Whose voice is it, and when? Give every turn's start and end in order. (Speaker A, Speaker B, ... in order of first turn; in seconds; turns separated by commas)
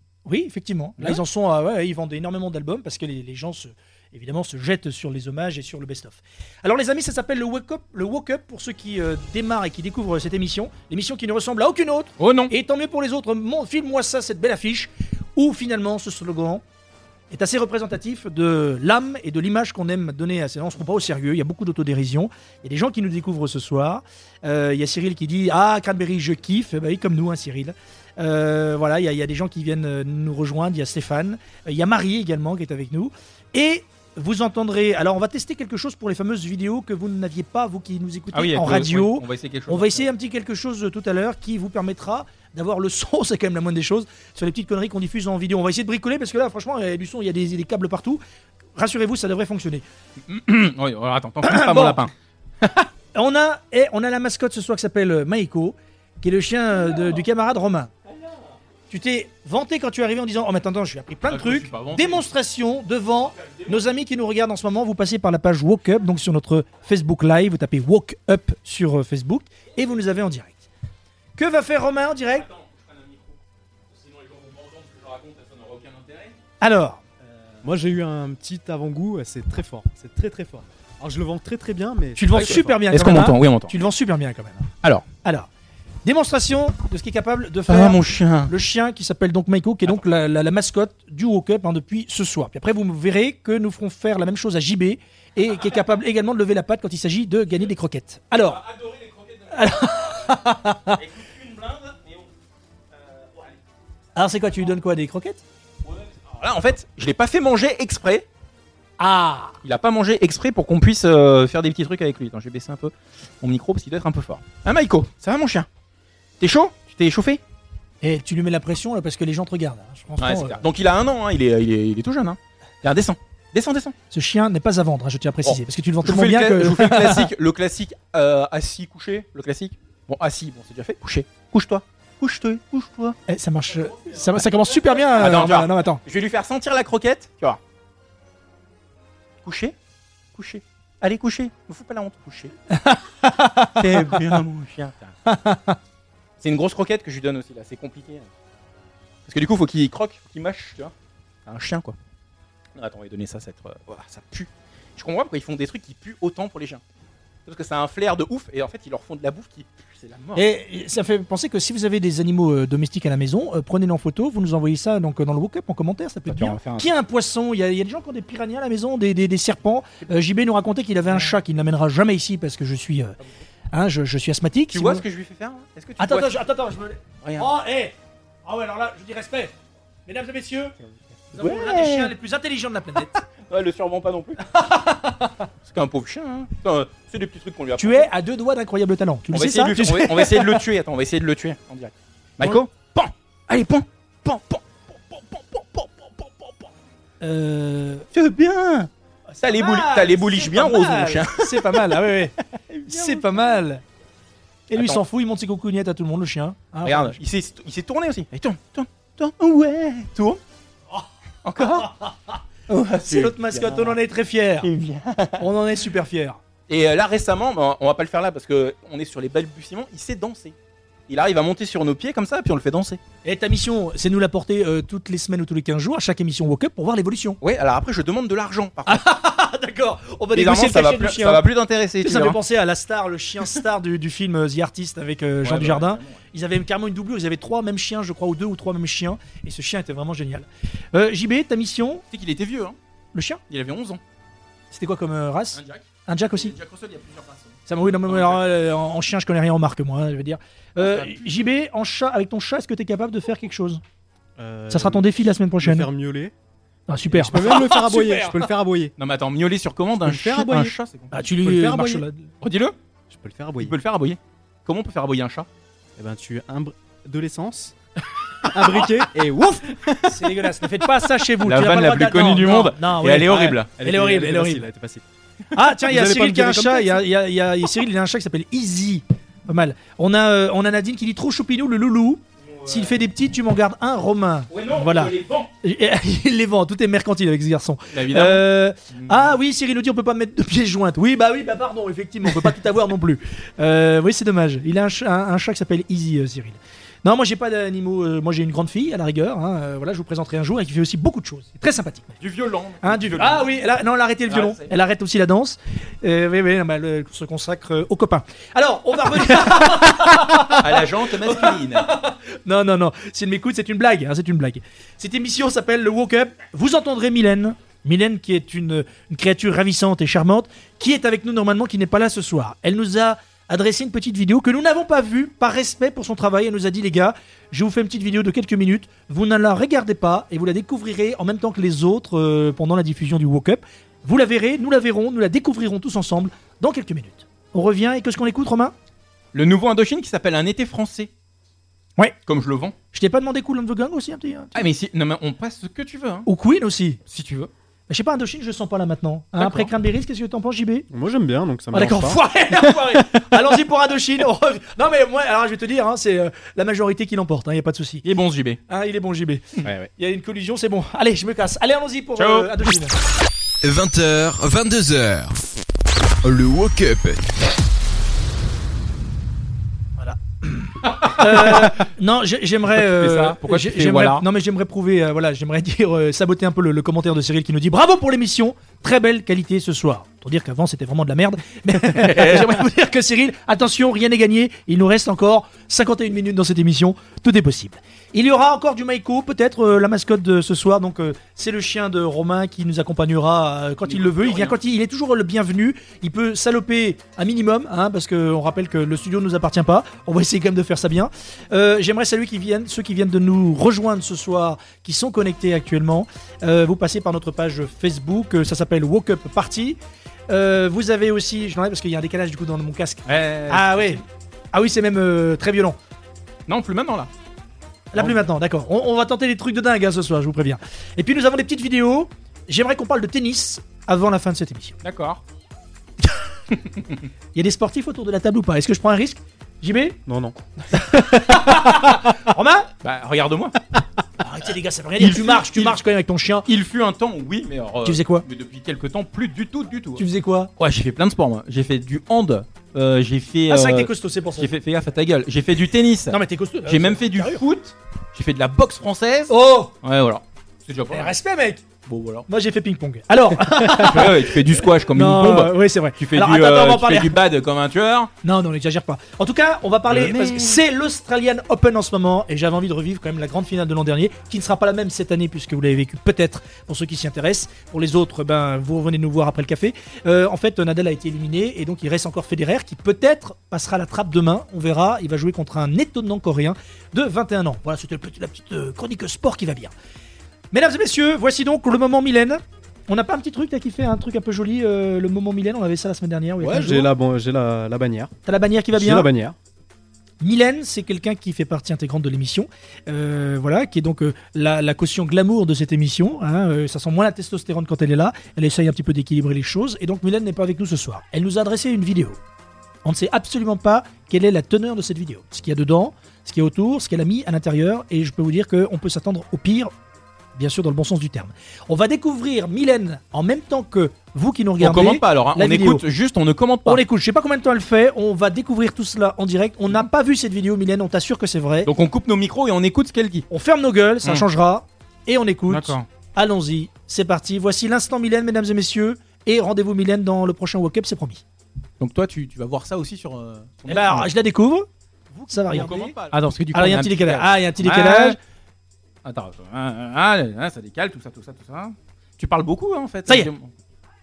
Speaker A: 0.3-16.6, Speaker B: 12.2-12.5, Speaker A: 17.3-48.2, Speaker B: 38.3-40.1, Speaker A: 48.8-49.8, Speaker B: 50.3-52.9, Speaker A: 51.4-52.1, Speaker A: 53.1-57.9, Speaker B: 56.8-57.2, Speaker B: 58.1-58.4, Speaker A: 58.9-70.7, Speaker B: 61.3-62.3, Speaker B: 63.3-63.8, Speaker A: 71.4-72.5, Speaker B: 72.3-73.4, Speaker B: 73.9-76.4, Speaker A: 76.6-77.0, Speaker B: 77.3-77.6, Speaker C: 77.6-82.8, Speaker A: 82.2-84.7, Speaker B: 82.4-83.8, Speaker A: 85.2-85.5, Speaker A: 86.0-98.6, Speaker B: 87.7-88.5, Speaker B: 95.5-95.8, Speaker B: 98.4-102.3, Speaker A: 99.5-101.0, Speaker B: 102.9-103.6, Speaker A: 104.2-105.4, Speaker B: 105.8-108.3, Speaker A: 109.0-109.6, Speaker B: 109.6-115.7, Speaker B: 116.4-117.4, Speaker A: 118.0-120.6, Speaker B: 120.2-124.0, Speaker A: 124.1-127.3, Speaker B: 125.4-133.2, Speaker A: 133.3-136.0, Speaker B: 133.9-137.6, Speaker B: 139.4-139.8, Speaker B: 140.3-142.5, Speaker A: 142.7-144.4, Speaker B: 143.8-145.1, Speaker A: 145.3-145.8, Speaker B: 146.4-148.3, Speaker B: 149.3-150.9, Speaker B: 151.5-152.0, Speaker B: 152.8-156.8, Speaker B: 157.5-160.4, Speaker A: 160.3-173.2, Speaker B: 166.3-166.9, Speaker B: 171.1-171.4, Speaker A: 173.7-175.0, Speaker B: 174.7-176.4, Speaker A: 176.0-177.9, Speaker B: 177.2-177.5, Speaker A: 178.5-179.5, Speaker A: 180.1-180.8, Speaker A: 181.3-183.2, Speaker B: 181.3-182.1, Speaker B: 183.5-184.4, Speaker A: 184.5-185.5, Speaker B: 185.7-188.1, Speaker A: 187.8-190.6, Speaker B: 189.3-196.7, Speaker A: 197.2-198.1, Speaker B: 198.1-198.9, Speaker A: 199.3-202.4, Speaker B: 199.4-202.1, Speaker B: 202.7-203.6, Speaker A: 202.9-203.8, Speaker A: 204.7-207.2, Speaker B: 204.8-205.0, Speaker B: 206.8-210.4, Speaker B: 211.4-211.9, Speaker A: 211.6-212.4, Speaker B: 212.7-214.0, Speaker A: 213.0-214.7, Speaker B: 214.6-215.5, Speaker A: 215.4-216.4, Speaker B: 216.7-220.6, Speaker B: 221.1-223.0, Speaker A: 223.2-227.4, Speaker B: 227.4-229.1, Speaker A: 228.9-231.4, Speaker B: 230.3-232.4, Speaker A: 232.0-242.0, Speaker B: 235.4-236.2, Speaker B: 242.1-242.8, Speaker A: 243.1-243.4, Speaker B: 243.5-244.0, Speaker A: 244.7-246.5, Speaker B: 245.5-248.5, Speaker A: 247.7-253.8, Speaker B: 250.8-251.3, Speaker C: 254.4-256.3, Speaker A: 254.7-255.9, Speaker A: 256.9-258.5, Speaker C: 257.1-258.9, Speaker B: 259.0-261.1, Speaker C: 260.1-260.8, Speaker A: 261.1-262.3, Speaker C: 261.4-262.1, Speaker B: 262.4-262.8, Speaker C: 263.1-263.8, Speaker B: 263.6-265.5, Speaker C: 266.0-267.8, Speaker C: 268.4-269.8, Speaker A: 270.0-274.6, Speaker B: 271.4-273.7, Speaker C: 273.8-275.1, Speaker A: 275.5-302.2, Speaker C: 275.6-277.1, Speaker B: 282.4-283.0, Speaker B: 284.5-285.5, Speaker B: 287.9-289.4, Speaker B: 302.2-303.5, Speaker A: 302.8-338.7, Speaker B: 304.3-304.7, Speaker B: 309.2-311.9, Speaker B: 339.3-341.1, Speaker B: 342.3-342.8, Speaker A: 342.9-344.6, Speaker B: 344.6-346.3, Speaker A: 346.3-347.0, Speaker B: 347.1-347.5, Speaker A: 347.9-350.9, Speaker B: 349.4-349.7, Speaker C: 350.9-353.3, Speaker A: 351.7-358.1, Speaker B: 358.0-358.6, Speaker A: 358.7-362.9, Speaker C: 359.6-359.9, Speaker B: 362.2-362.7, Speaker D: 363.6-365.4, Speaker D: 366.2-367.3, Speaker A: 370.0-415.8, Speaker B: 370.9-371.9, Speaker B: 372.7-374.2, Speaker B: 381.8-382.6, Speaker B: 393.9-394.6, Speaker B: 413.1-414.0, Speaker B: 416.5-417.1, Speaker A: 417.9-424.8, Speaker B: 424.8-425.2, Speaker B: 426.5-427.1, Speaker A: 427.4-430.0, Speaker C: 430.1-430.4, Speaker A: 430.7-432.7, Speaker B: 432.8-433.6, Speaker A: 434.2-436.5, Speaker B: 435.0-435.8, Speaker B: 436.5-440.0, Speaker A: 437.9-438.2, Speaker A: 440.0-440.5, Speaker B: 440.6-451.1, Speaker A: 443.5-444.5, Speaker A: 446.1-447.4, Speaker A: 449.3-449.7, Speaker A: 450.9-451.6, Speaker B: 451.9-452.3, Speaker A: 452.3-457.2, Speaker B: 453.5-458.1, Speaker A: 458.2-479.7, Speaker B: 459.9-460.6, Speaker A: 480.5-486.9, Speaker C: 486.4-488.1, Speaker A: 488.3-489.1, Speaker C: 488.7-489.4, Speaker A: 490.2-502.2, Speaker A: 502.9-509.7, Speaker A: 510.4-515.8, Speaker B: 514.6-516.8, Speaker A: 516.7-521.7, Speaker B: 521.6-523.3, Speaker A: 523.3-531.2, Speaker B: 525.5-525.9, Speaker B: 531.8-534.1, Speaker A: 533.7-538.2, Speaker B: 535.3-538.2, Speaker B: 539.0-543.5